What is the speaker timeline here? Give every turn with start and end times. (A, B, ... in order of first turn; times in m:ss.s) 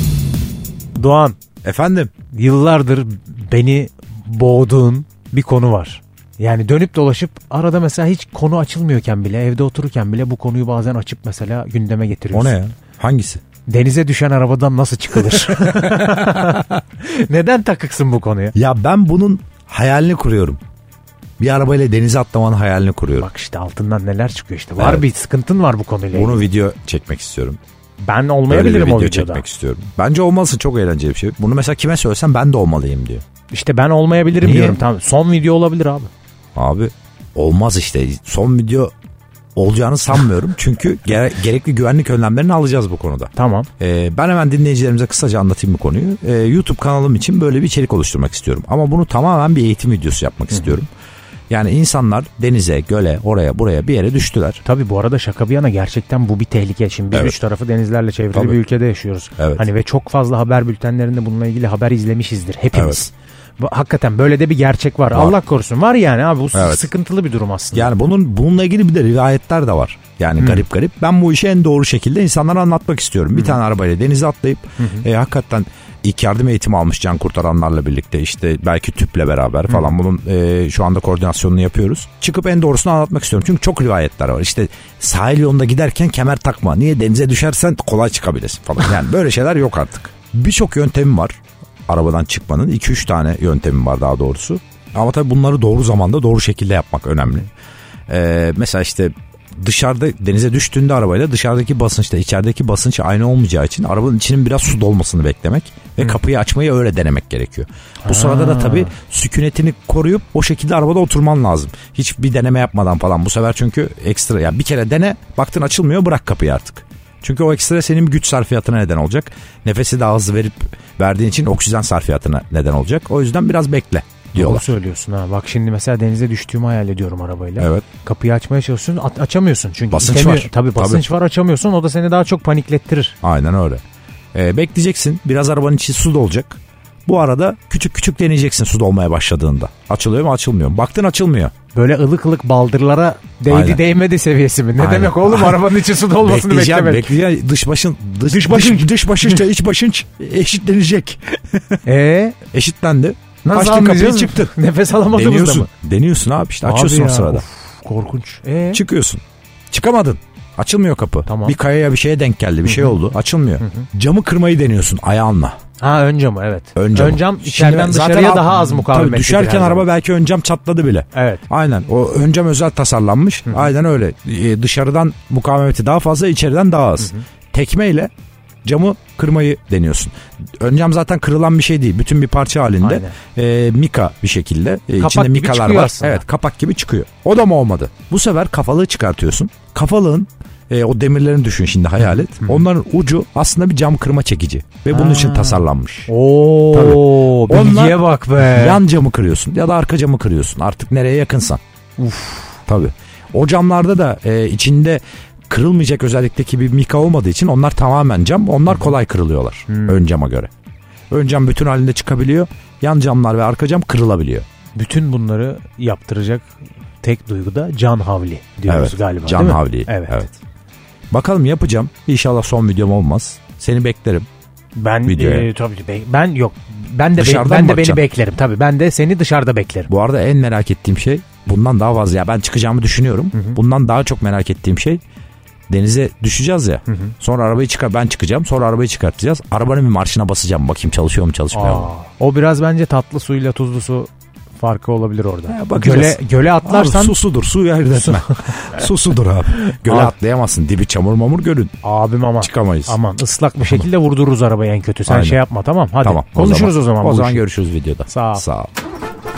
0:01.0-0:01.4 A
0:01.6-0:02.1 B
0:02.3-0:12.6 A
0:12.3-0:13.4 B
0:13.7-0:18.5 A
0:15.6-0:16.6 B
0:18.6-0:20.6 B
0:21.4-0:23.3 B
0:23.2-0:26.4 A
0:24.8-0:25.0 B
0:26.1-0:27.6 B
0:28.0-0:29.4 A
0:28.5-0:33.2 B
0:33.5-0:36.1 A
0:34.4-0:34.8 B
0:36.6-0:38.9 B
0:39.6-0:50.9 B
0:43.3-0:43.7 A
0:50.5-0:50.8 A
0:51.5-0:54.6 B
0:54.6-1:07.9 A
0:58.3-0:58.6 B
0:59.4-0:59.6 B
1:02.7-1:03.0 B
1:06.5-1:06.9 B
1:07.7-1:37.5 B
1:10.4-1:10.6 A
1:14.8-1:15.0 A
1:38.1-2:04.7 B
1:48.0-1:48.9 A
2:04.3-2:13.2 A
2:07.6-2:07.8 B
2:09.9-2:11.0 B
2:13.2-2:13.8 B
2:14.3-2:21.5 B
2:21.7-2:27.1 A
2:23.5-2:23.8 B
2:24.8-2:31.8 B
2:28.2-2:29.4 A
2:31.8-2:32.4 A
2:32.5-2:34.5 B
2:33.4-2:35.7 A
2:35.1-2:37.4 B
2:36.6-2:38.8 A
2:38.7-2:45.6 B
2:41.2-2:41.6 A
2:42.6-2:43.0 A
2:43.6-2:43.9 A
2:45.8-2:49.9 A
2:46.8-2:58.1 B
2:51.1-2:51.4 A
2:53.4-2:53.7 A
2:58.6-3:16.1 B
3:02.8-3:03.1 A
3:05.0-3:06.2 A
3:12.1-3:12.6 A
3:14.9-3:18.8 A
3:16.7-3:21.6 B
3:22.0-3:22.6 A
3:22.7-3:30.5 B
3:29.7-3:30.0 A
3:31.1-3:34.4 B
3:34.7-3:40.2 A
3:38.7-3:40.4 B
3:41.1-3:44.3 B
3:44.7-3:49.9 A
3:45.0-3:45.5 B
3:47.2-3:48.0 B
3:49.9-3:55.0 B
3:53.3-3:53.6 A
3:55.7-4:01.9 B
3:56.9-3:57.1 A
4:01.5-4:07.2 A
4:05.5-4:11.7 B
4:07.9-4:08.5 A
4:09.8-4:10.1 A
4:11.8-4:17.4 A
4:12.4-4:13.0 B
4:15.1-4:15.4 B
4:16.0-4:18.7 B
4:18.1-4:18.4 A